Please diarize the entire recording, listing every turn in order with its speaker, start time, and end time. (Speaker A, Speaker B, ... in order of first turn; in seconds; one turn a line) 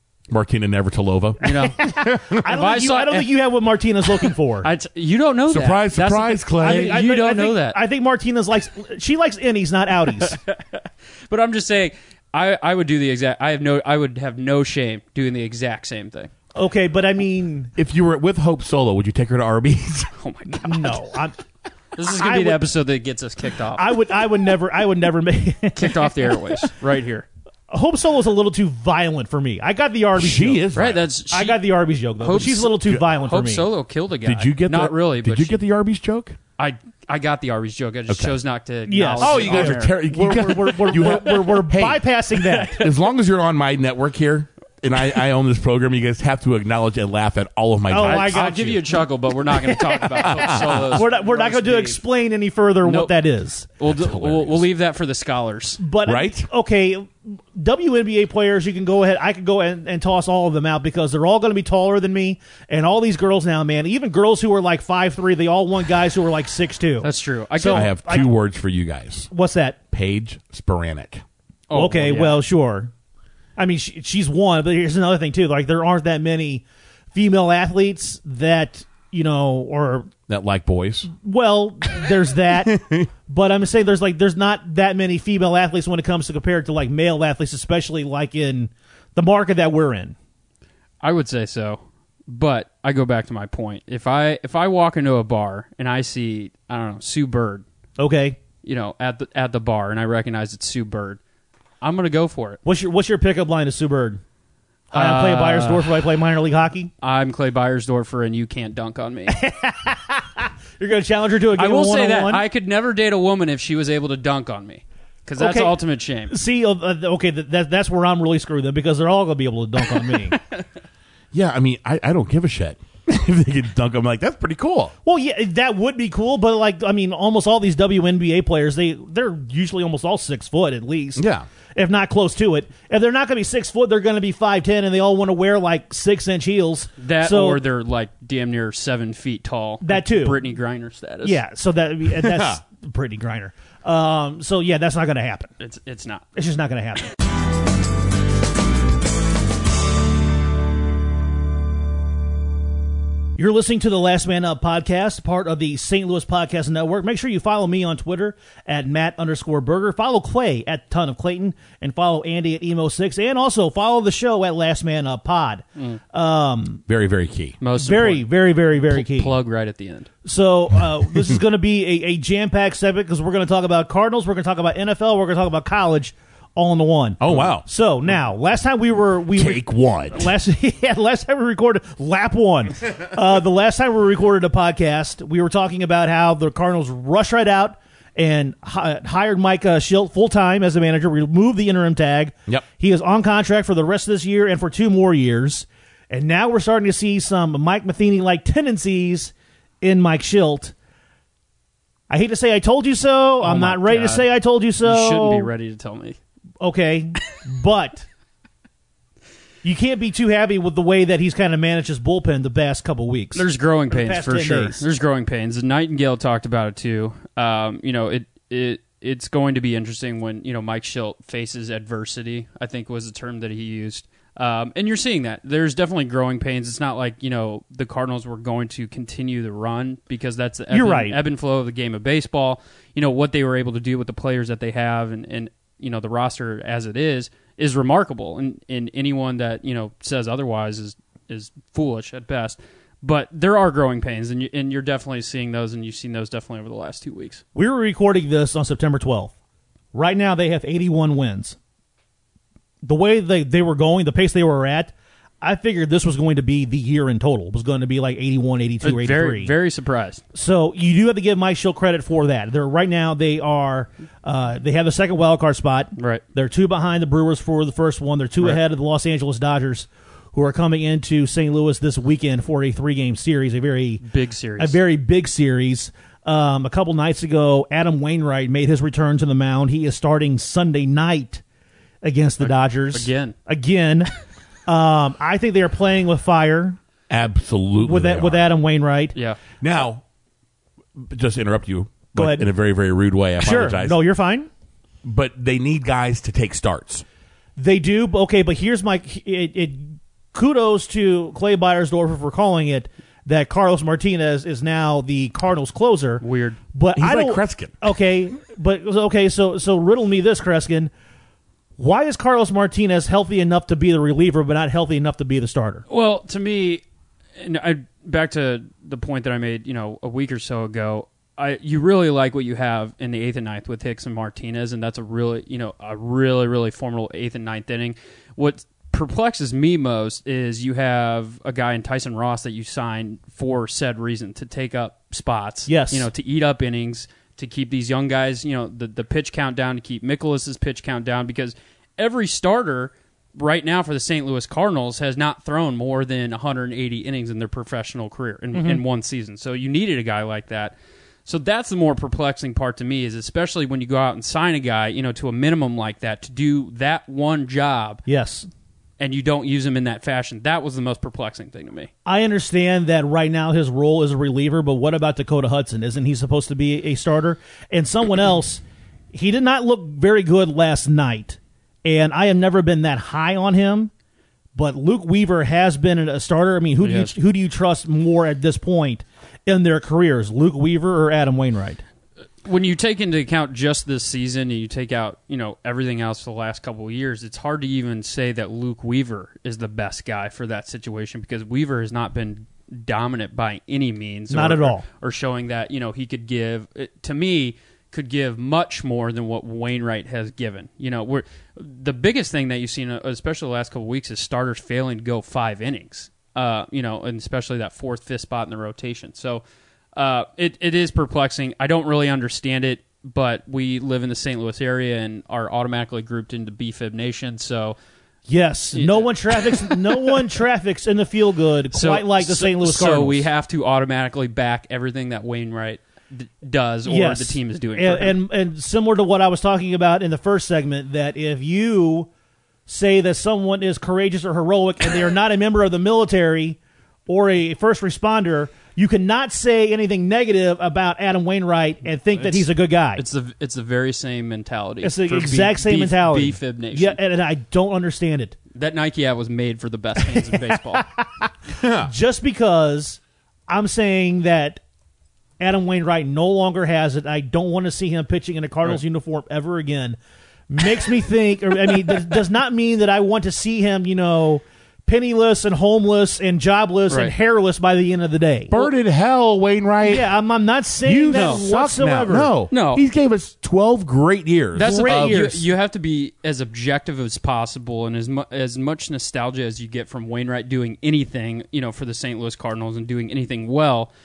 Speaker A: 0.3-2.4
Speaker B: 1.4-3.3
Speaker C: 1.4-4.7
Speaker B: 4.6-7.8
Speaker A: 5.5-7.0
Speaker C: 6.6-10.4
Speaker B: 10.2-16.3
Speaker C: 16.5-17.7
Speaker A: 17.8-20.1
Speaker B: 20.2-21.1
Speaker C: 20.5-21.4
Speaker B: 21.9-23.9
Speaker C: 22.0-22.7
Speaker C: 23.7-26.7
Speaker B: 25.7-27.2
Speaker C: 27.7-30.6
Speaker A: 30.1-31.0
Speaker B: 30.7-31.6
Speaker C: 31.3-33.7
Speaker B: 32.2-35.6
Speaker A: 34.2-36.4
Speaker B: 36.6-39.9
Speaker A: 38.1-38.4
Speaker C: 38.9-42.8
Speaker A: 39.2-42.0
Speaker B: 41.0-41.3
Speaker B: 42.5-42.9
Speaker A: 42.7-48.8
Speaker C: 47.9-53.7
Speaker B: 48.0-52.0
Speaker A: 50.2-51.0
Speaker B: 52.8-53.1
Speaker B: 53.8-55.8
Speaker A: 53.8-54.6
Speaker C: 55.8-68.3
Speaker A: 56.0-56.5
Speaker B: 67.0-67.9
Speaker A: 67.7-69.3
Speaker C: 69.3-69.8
Speaker A: 69.9-71.2
Speaker B: 71.7-72.4
Speaker C: 71.7-72.9
Speaker C: 73.5-80.1
Speaker A: 80.3-81.1
Speaker C: 81.1-90.1
Speaker A: 82.7-83.1
Speaker B: 91.0-97.6
Speaker C: 98.0-98.4
Speaker B: 98.6-101.2
Speaker B: 101.8-102.6
Speaker C: 102.6-104.2
Speaker C: 104.9-106.9
Speaker B: 104.9-106.0
Speaker B: 107.0-109.4
Speaker C: 109.3-112.4
Speaker B: 111.5-116.3
Speaker C: 115.4-120.4
Speaker B: 120.3-120.6
Speaker A: 121.3-124.9
Speaker C: 125.0-131.2
Speaker A: 131.2-131.4
Speaker C: 131.7-137.6
Speaker B: 137.0-141.4
Speaker C: 139.8-140.4
Speaker C: 141.2-145.5
Speaker A: 142.2-142.6
Speaker B: 145.6-146.2
Speaker C: 146.3-147.1
Speaker C: 153.4-166.8
Speaker A: 166.9-167.6
Speaker B: 167.6-168.3
Speaker C: 167.8-169.3
Speaker B: 168.8-170.1
Speaker C: 170.2-200.7
Speaker A: 177.2-177.7
Speaker A: 179.3-180.3
Speaker C: 202.1-205.5
Speaker B: 203.4-204.3
Speaker B: 204.8-206.2
Speaker C: 206.6-208.1
Speaker C: 209.6-214.8
Speaker B: 213.3-247.4
Speaker C: 230.7-231.2
Speaker C: 247.5-249.3
Speaker C: 249.9-251.6
Speaker C: 252.8-259.5
Speaker B: 258.8-260.2
Speaker C: 260.3-274.0
Speaker B: 266.0-266.2
Speaker B: 274.0-274.8
Speaker C: 274.6-281.4
Speaker C: 282.0-284.1
Speaker B: 282.4-283.3
Speaker C: 284.7-286.8
Speaker A: 287.1-288.4
Speaker C: 287.8-289.1
Speaker A: 289.6-290.0
Speaker A: 291.0-294.0
Speaker C: 292.1-292.4
Speaker C: 293.4-294.5
Speaker A: 295.0-297.0
Speaker C: 297.6-310.9
Speaker B: 306.2-306.6
Speaker A: 306.9-307.8
Speaker C: 311.8-315.8
Speaker B: 315.9-316.8
Speaker B: 317.4-350.7
Speaker C: 335.7-336.1
Speaker C: 348.5-348.8
Speaker B: 351.2-358.0
Speaker C: 358.1-358.5
Speaker B: 359.0-361.9
Speaker C: 362.1-368.6
Speaker C: 369.1-373.9
Speaker C: 374.5-381.8
Speaker B: 376.8-377.1
Speaker B: 382.4-409.4
Speaker C: 394.3-394.8
Speaker B: 409.9-417.8
Speaker C: 418.3-423.3
Speaker B: 418.7-420.2
Speaker B: 421.7-428.2
Speaker C: 426.9-432.1
Speaker C: 432.7-443.0
Speaker B: 442.2-447.0
Speaker C: 444.8-448.4
Speaker B: 448.5-450.9
Speaker C: 450.0-451.3
Speaker A: 451.5-451.9
Speaker C: 451.8-454.6
Speaker C: 455.4-460.0
Speaker C: 460.5-468.5
Speaker B: 466.9-467.1
Speaker A: 468.5-470.1
Speaker C: 469.8-472.3
Speaker A: 470.8-475.2
Speaker B: 472.5-472.8
Speaker B: 474.6-483.9
Speaker C: 474.6-475.4